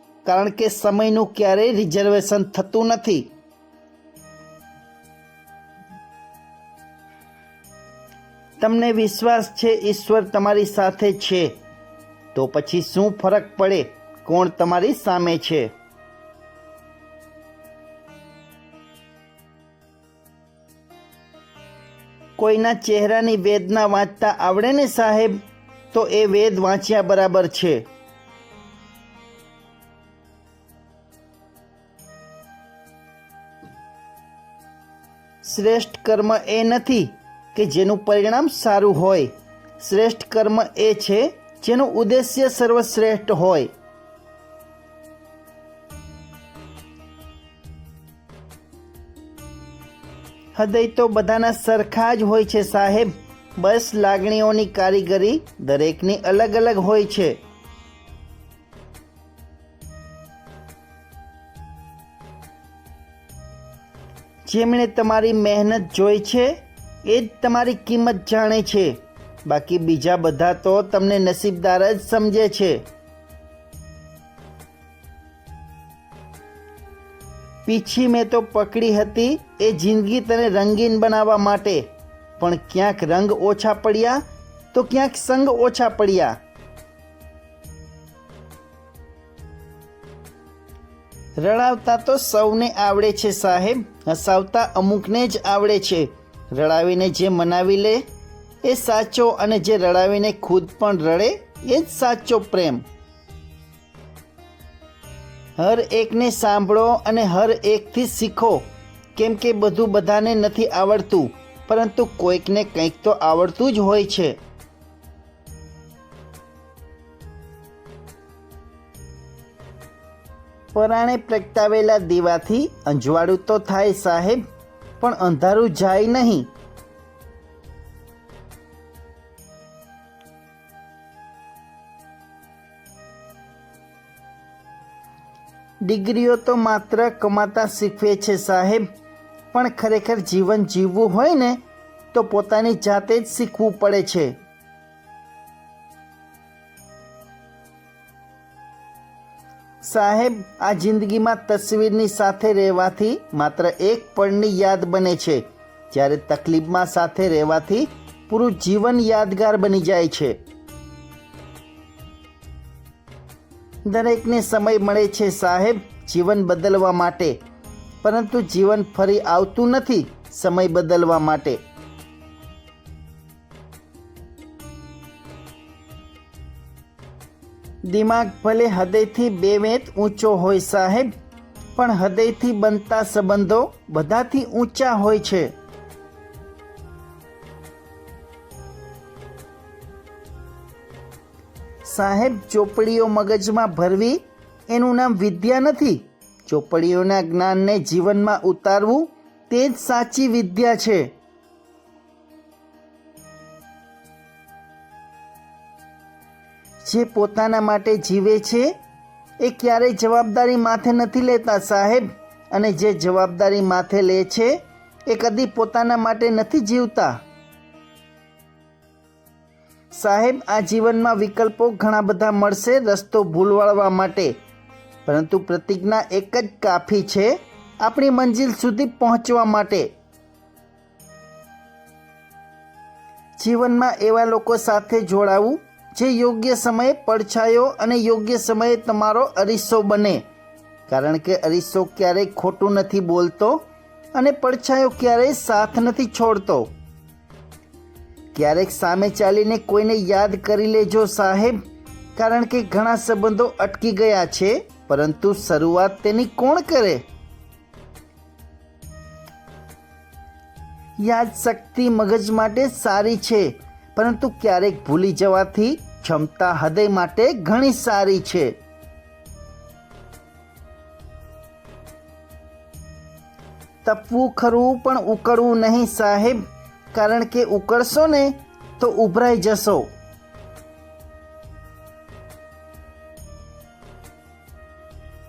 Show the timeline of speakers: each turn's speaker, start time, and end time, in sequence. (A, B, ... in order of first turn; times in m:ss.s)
0:00.2-0:03.3 A
0:08.6-0:11.5 A
0:12.3-0:15.7 A
0:22.4-0:25.4 A
0:25.9-0:27.8 A
0:35.4-0:43.7 A
0:50.6-0:57.4 A
1:04.5-1:06.5 A
1:07.0-1:12.8 A
1:17.7-1:21.9 A
1:22.4-1:24.2 A
1:24.7-1:26.4 A
1:31.4-1:38.0 A
1:38.6-1:42.8 A
1:45.6-1:48.6 A
1:49.2-1:54.4 A
2:00.7-2:04.4 A
2:05.0-2:06.5 A
2:15.8-2:18.8 A
2:19.5-2:21.6 A
2:22.1-2:24.3 A
2:29.8-2:40.4 A
2:43.9-2:47.4 A
2:48.0-2:51.6 A
2:57.9-3:01.1 A
3:01.8-3:05.5 A
3:11.9-3:21.1 A
3:26.8-3:28.7 A
3:29.4-3:34.6 A
3:35.1-3:37.2 A
3:39.9-3:44.4 A
3:45.1-3:49.9 A
3:53.4-4:00.2 A
4:00.9-4:06.7 A
4:08.3-4:11.6 A
4:12.2-4:17.0 A
4:21.0-4:28.6 A
4:33.8-4:36.4 A
4:36.9-4:39.9 A